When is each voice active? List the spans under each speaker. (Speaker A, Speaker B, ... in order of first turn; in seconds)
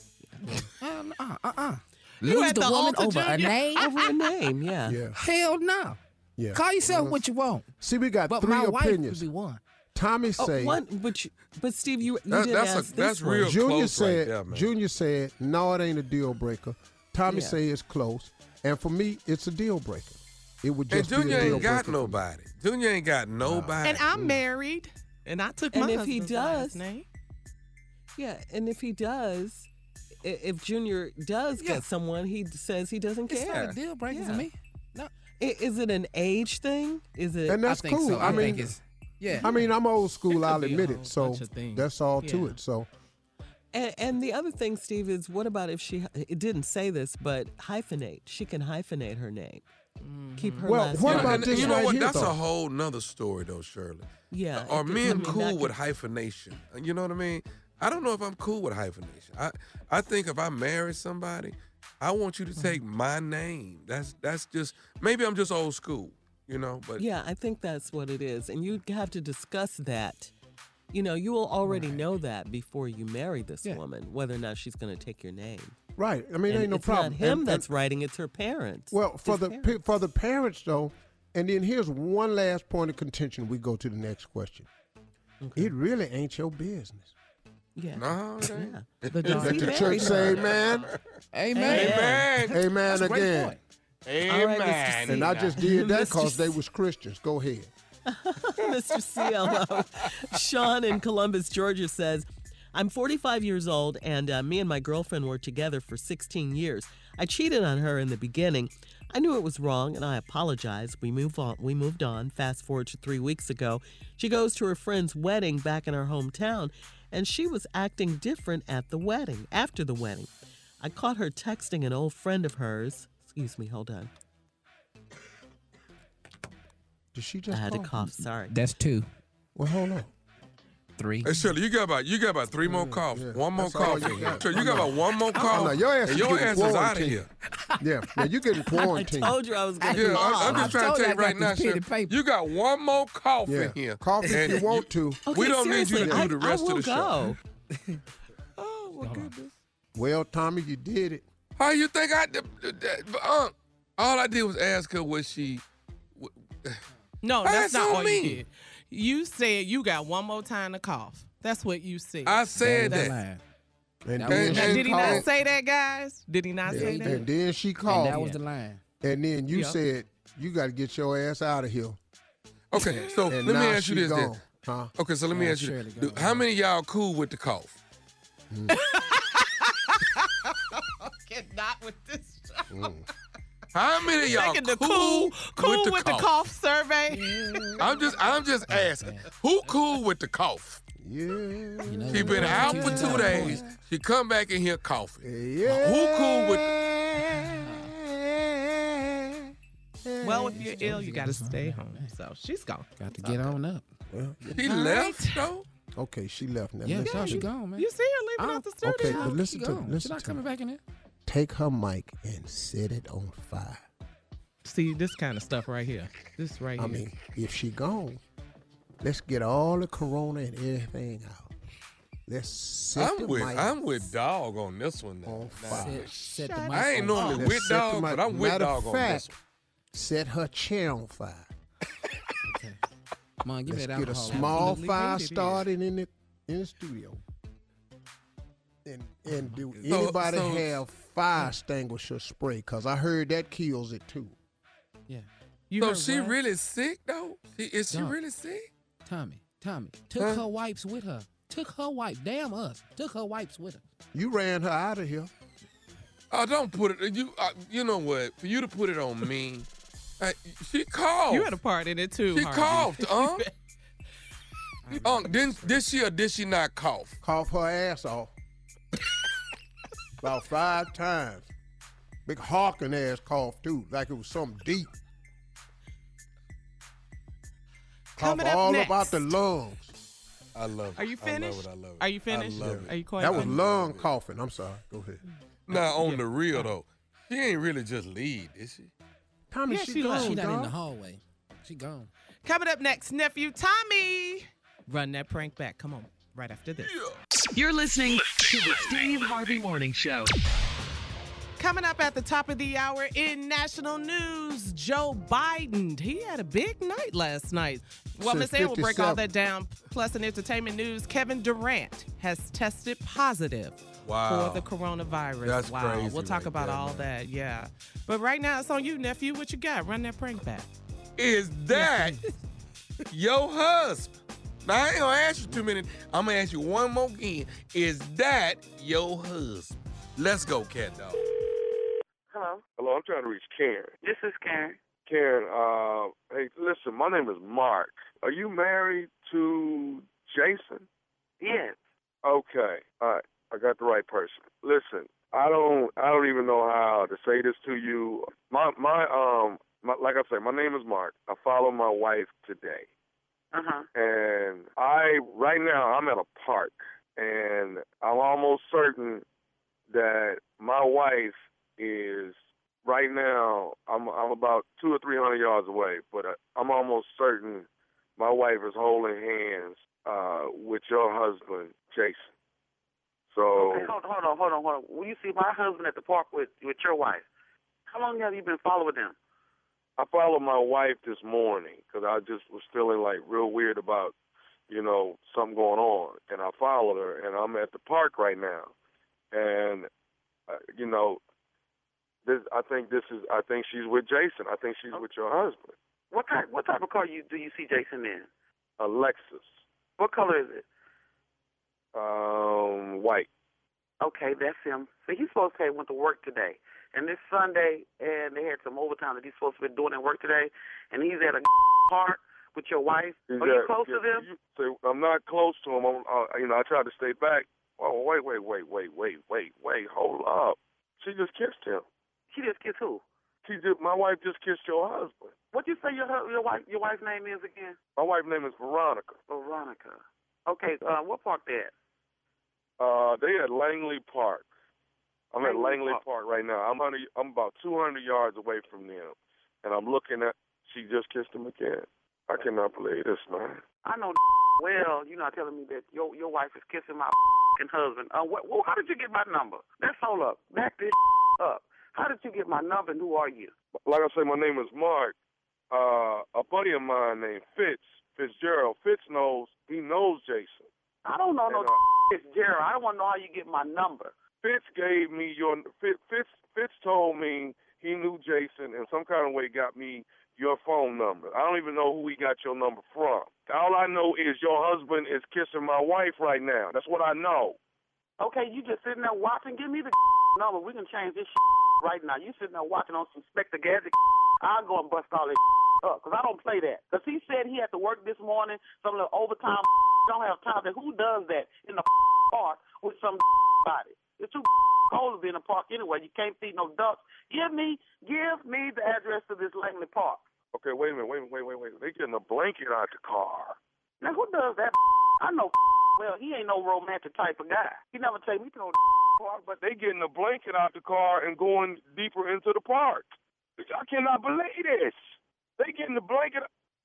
Speaker A: 0.8-3.9, 5.1-6.0, 6.5-7.7, 8.3-9.6, 31.6-31.9, 33.3-35.1, 37.6-39.5, 71.7-72.1, 91.3-93.6, 128.5-129.1, 131.0-131.3, 137.6-138.3, 139.8-142.2, 149.0-149.3, 162.6-163.4, 164.2-164.9, 166.7-167.2, 167.8-168.8, 175.3-176.4, 187.2-187.8, 188.7-189.2, 191.8-193.8, 197.6-197.9, 200.5-202.1, 203.0-203.8, 206.8-210.8, 225.7-227.4, 232.5-232.8, 233.4-234.8, 239.3-239.9, 247.9-248.2, 249.0-253.8, 264.9-265.6, 290.0-292.1
Speaker B: 2.2-4.0, 23.8-27.1, 39.4-39.7, 40.3-42.6, 50.0-51.3, 55.0-55.4, 89.1-90.3, 157.2-163.1, 164.4-167.2, 169.5-169.8, 178.7-182.9, 184.2-187.6, 200.2-203.4, 204.6-205.4, 207.1-209.4, 214.6-217.0, 226.0-227.5, 234.3-235.6, 245.7-246.3, 261.3-263.5, 278.2-279.2, 281.0-283.6, 285.7-286.7, 289.7-290.4, 292.4-296.9, 301.6-320.7, 321.7-322.2
Speaker C: 3.8-5.0, 10.4-13.6, 17.2-17.6, 21.3-21.6, 25.7-26.8, 28.2-29.7, 30.2-34.5, 35.4-38.6, 43.7-49.6, 50.4-51.9, 54.3-55.7, 67.0-70.3, 70.9-75.7, 76.5-79.8, 85.4-85.7, 87.8-90.8, 91.5-92.2, 94.2-96.6, 98.0-120.3, 120.8-124.1, 127.5-128.6, 138.8-140.8, 145.2-147.4, 148.6-149.3
Speaker D: 4.8-5.2, 6.4-7.2, 7.8-9.3, 9.9-10.8, 13.4-22.2, 23.4-23.8, 37.5-38.7, 39.4-42.9, 50.6-52.4, 76.0-77.7, 78.9-84.7, 85.5-87.1, 89.2-90.9, 92.5-93.5, 95.0-97.7, 127.1-128.1, 129.5-130.1, 132.7-137.2, 137.8-139.4, 140.1-140.7, 143.4-145.2, 146.0-146.3, 149.9-151.2, 164.0-165.2, 166.7-168.4, 169.0-172.0, 173.3-174.9, 178.5-178.8, 182.7-183.1, 187.4-187.9, 191.0-193.6, 195.2-201.0, 204.1-204.5, 205.9-207.5, 208.8-210.4, 211.2-213.8, 216.8-218.2, 219.0-221.5, 222.3-223.8, 225.2-226.1, 227.3-229.3, 229.9-231.5, 233.7-237.2, 238.8-244.3, 254.1-255.3, 267.2-268.3, 270.2-271.5, 272.2-274.9, 278.2-279.9, 282.6-285.2, 289.5-290.7, 308.2-309.2
Speaker E: 12.3-14.7, 20.9-24.4, 51.0-67.0, 87.9-90.4, 91.6-92.6, 94.0-95.5, 99.5-99.8, 131.2-137.3, 139.9-147.3, 151.6-155.6, 156.2-156.8, 157.4-158.4, 162.2-163.2, 164.3-165.3, 172.7-174.4, 174.9-177.8, 183.7-186.3, 187.8-190.8, 192.1-196.7, 204.5-205.7, 222.9-226.0, 226.7-229.3, 239.9-240.7, 245.8-248.7, 250.2-250.4, 256.3-259.7, 260.2-261.6, 262.3-263.5, 264.9-267.1, 280.5-284.1, 285.7-288.9, 296.8-297.2, 314.0-314.6, 315.4-317.1, 321.2-322.1, 323.1-331.2
Speaker F: 297.5-300.3
Speaker G: 332.3-332.6, 334.0-334.8, 341.4-341.8, 353.5-353.9, 373.6-377.2, 377.9-379.1, 396.1-398.3, 400.0-400.6, 404.0-414.2, 422.3-423.0, 425.5-427.8, 429.3-431.7, 435.4-436.0, 443.8-453.5, 461.0-464.1, 478.2-500.2, 504.0-508.8
Speaker H: 332.8-333.9, 335.0-340.8, 342.2-352.9, 353.9-359.2, 359.9-367.6, 368.2-372.3, 373.3-373.9, 380.0-384.1, 384.7-388.7, 389.3-389.9, 390.5-391.2, 392.2-395.8, 398.8-399.5, 401.9-403.3, 413.2-421.8, 423.4-425.3, 428.0-429.2, 432.8-434.4, 435.3-443.6, 453.8-455.1, 455.7-460.7, 461.5-461.7, 464.4-477.6, 500.5-503.6, 509.2-515.0, 515.6-516.5